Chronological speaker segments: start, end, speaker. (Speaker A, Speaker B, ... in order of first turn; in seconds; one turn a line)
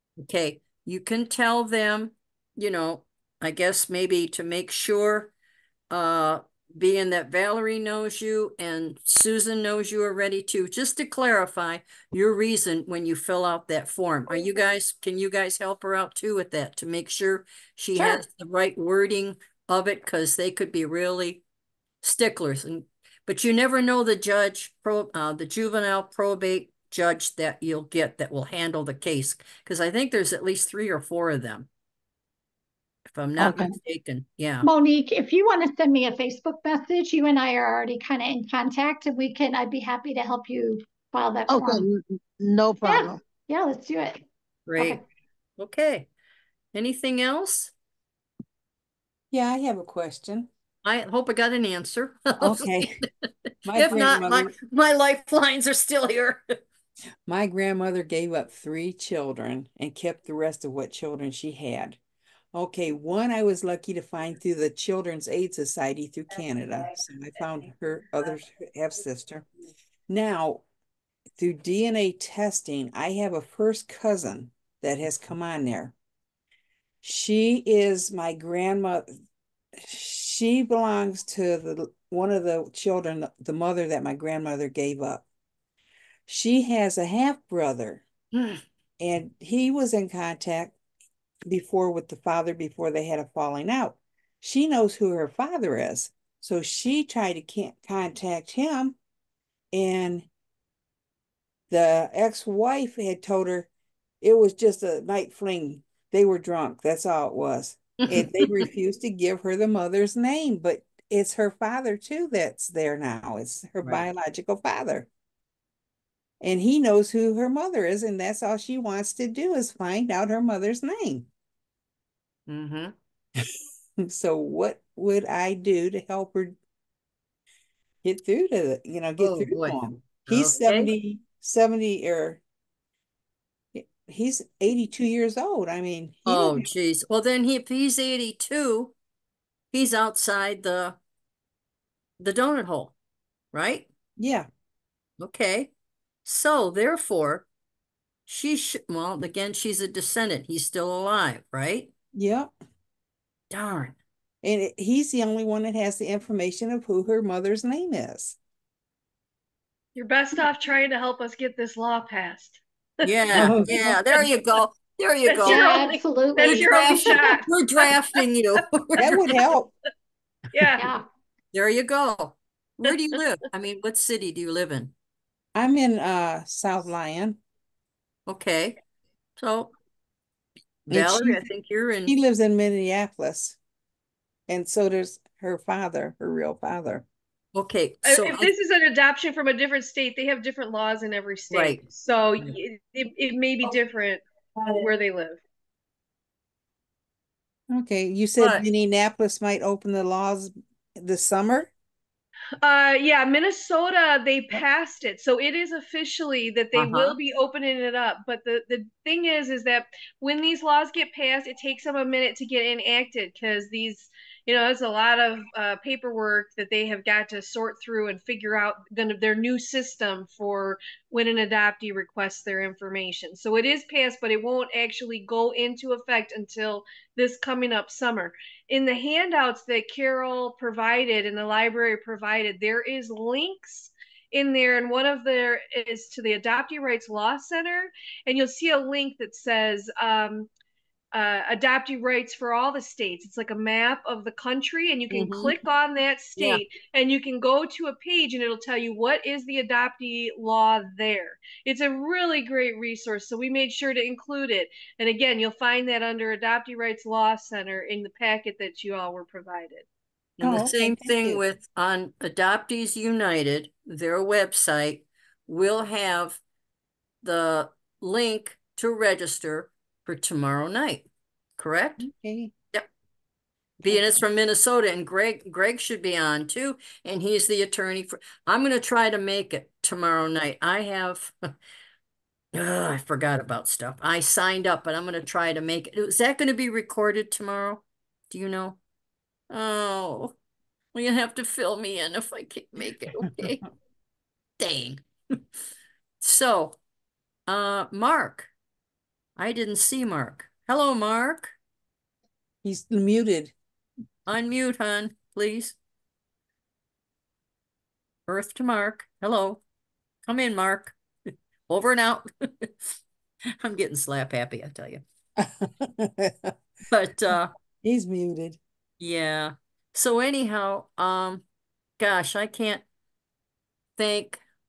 Speaker A: 0.2-5.3
Speaker A: 5.9-21.4
Speaker A: 22.0-31.7
Speaker A: 33.1-34.7
Speaker B: 33.4-33.7
Speaker C: 34.6-41.9
Speaker B: 41.5-43.2
Speaker C: 42.8-44.2
Speaker A: 44.7-45.0
Speaker A: 45.6-46.1
Speaker A: 46.7-47.7
Speaker D: 49.3-50.5
Speaker A: 50.8-53.1
Speaker D: 52.4-53.0
Speaker D: 53.6-54.5
Speaker A: 53.7-56.4
Speaker D: 57.3-62.0
Speaker D: 62.5-69.5
Speaker D: 70.1-70.6
Speaker D: 71.4-75.9
Speaker D: 77.0-79.1
Speaker D: 79.9-85.2
Speaker D: 86.3-88.0
Speaker A: 88.3-88.6
Speaker D: 89.0-90.8
Speaker D: 91.5-99.0
Speaker D: 99.7-100.3
Speaker D: 101.7-103.7
Speaker D: 104.2-115.1
Speaker A: 108.1-108.7
Speaker D: 116.4-121.3
Speaker A: 122.5-123.0
Speaker D: 124.1-126.6
Speaker D: 128.0-132.4
Speaker A: 129.2-130.9
Speaker D: 133.7-136.7
Speaker A: 136.3-138.9
Speaker A: 139.7-141.0
Speaker A: 142.2-142.9
Speaker A: 143.5-143.9
Speaker D: 144.2-144.5
Speaker A: 145.2-145.7
Speaker A: 146.2-147.5
Speaker A: 148.3-151.9
Speaker D: 152.1-152.5
Speaker A: 153.5-154.0
Speaker D: 154.4-158.4
Speaker E: 160.0-163.1
Speaker A: 163.0-165.9
Speaker D: 163.3-163.9
Speaker E: 165.3-167.9
Speaker C: 165.4-167.1
Speaker A: 166.4-169.2
Speaker D: 169.0-169.7
Speaker E: 169.1-169.4
Speaker E: 170.5-170.9
Speaker C: 170.8-171.0
Speaker A: 171.5-174.9
Speaker D: 175.6-177.4
Speaker A: 178.3-178.8
Speaker A: 179.4-179.7
Speaker A: 180.9-182.2
Speaker D: 180.9-181.5
Speaker D: 182.1-183.6
Speaker D: 184.5-187.1
Speaker A: 187.6-188.5
Speaker E: 188.0-194.2
Speaker A: 191.5-191.8
Speaker E: 194.7-195.4
Speaker D: 197.7-201.7
Speaker A: 198.4-198.7
Speaker E: 202.6-240.5
Speaker A: 206.8-207.2
Speaker E: 241.1-259.9
Speaker A: 245.1-245.6
Speaker A: 246.4-246.6
Speaker A: 260.4-266.4
Speaker D: 260.4-261.4
Speaker A: 267.2-271.1
Speaker A: 271.6-272.1
Speaker D: 272.0-272.5
Speaker D: 273.8-274.2
Speaker A: 273.8-281.3
Speaker A: 282.5-288.8
Speaker A: 289.5-290.3
Speaker A: 290.9-293.6
Speaker A: 294.6-295.0
Speaker A: 296.2-296.8
Speaker A: 297.5-298.5
Speaker A: 299.4-301.6
Speaker D: 302.6-303.5
Speaker A: 304.3-305.8
Speaker A: 308.3-309.6
Speaker A: 310.3-311.0
Speaker A: 311.7-312.9
Speaker A: 313.6-315.0
Speaker A: 316.9-317.5
Speaker D: 317.8-318.6
Speaker A: 319.0-321.4
Speaker A: 322.0-322.8
Speaker A: 324.0-324.4